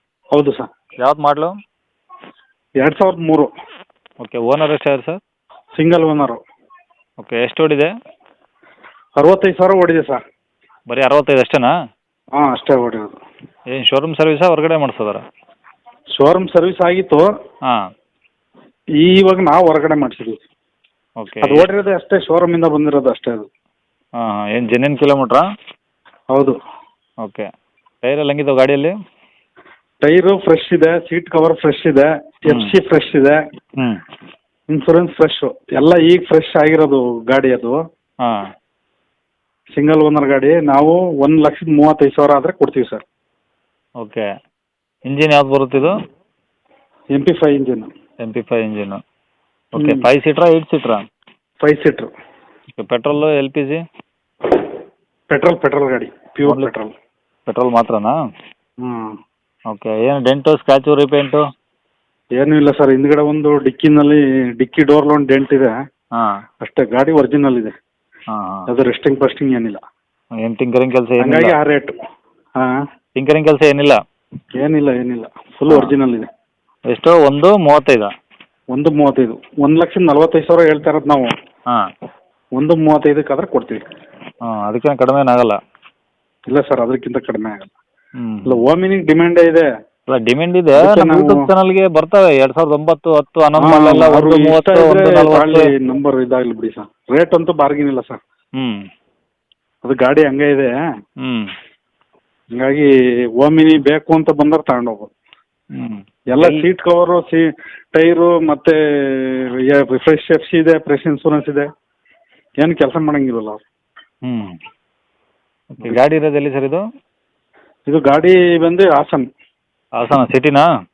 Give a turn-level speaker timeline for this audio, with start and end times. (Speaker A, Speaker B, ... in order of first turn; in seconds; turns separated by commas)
Speaker A: 0.3-0.6, Speaker B: 1.0-1.5, Speaker A: 2.8-3.5, Speaker B: 4.2-5.2, Speaker A: 5.8-6.4, Speaker B: 7.2-7.9, Speaker A: 9.2-10.2, Speaker B: 10.9-11.7, Speaker A: 12.4-13.1, Speaker B: 13.7-15.2, Speaker A: 16.2-17.2, Speaker A: 19.0-20.4, Speaker B: 21.2-21.7, Speaker A: 21.4-23.5, Speaker B: 24.2-25.4, Speaker B: 28.0-28.9, Speaker A: 30.0-33.4, Speaker B: 32.5-32.7, Speaker A: 34.7-37.8, Speaker A: 39.8-43.0, Speaker B: 44.0-44.2, Speaker B: 45.1-45.9, Speaker A: 47.1-47.9, Speaker B: 48.2-49.0, Speaker B: 49.8-51.0, Speaker A: 49.8-50.0, Speaker A: 51.6-52.1, Speaker B: 52.8-53.8, Speaker A: 55.3-56.9, Speaker B: 56.4-56.7, Speaker B: 57.5-58.1, Speaker A: 58.8-59.1, Speaker B: 59.7-61.4, Speaker A: 62.4-65.8, Speaker A: 66.6-67.7, Speaker B: 68.3-68.6, Speaker A: 68.7-69.8, Speaker B: 70.4-71.5, Speaker A: 71.2-72.0, Speaker B: 73.2-74.0, Speaker A: 74.6-76.3, Speaker B: 76.9-78.1, Speaker A: 78.7-81.3, Speaker A: 82.6-83.8, Speaker B: 84.5-85.6, Speaker A: 86.5-87.7, Speaker B: 88.2-88.6, Speaker A: 88.4-89.7, Speaker B: 90.1-95.6, Speaker A: 90.8-91.5, Speaker A: 93.6-98.2, Speaker B: 98.6-98.8, Speaker A: 99.8-100.7, Speaker B: 101.2-101.5, Speaker A: 102.5-102.9, Speaker A: 103.4-105.1, Speaker B: 105.7-106.6, Speaker A: 106.3-111.7, Speaker A: 112.6-113.6, Speaker B: 114.2-114.5, Speaker B: 115.8-116.8, Speaker A: 117.8-119.2, Speaker B: 120.0-120.7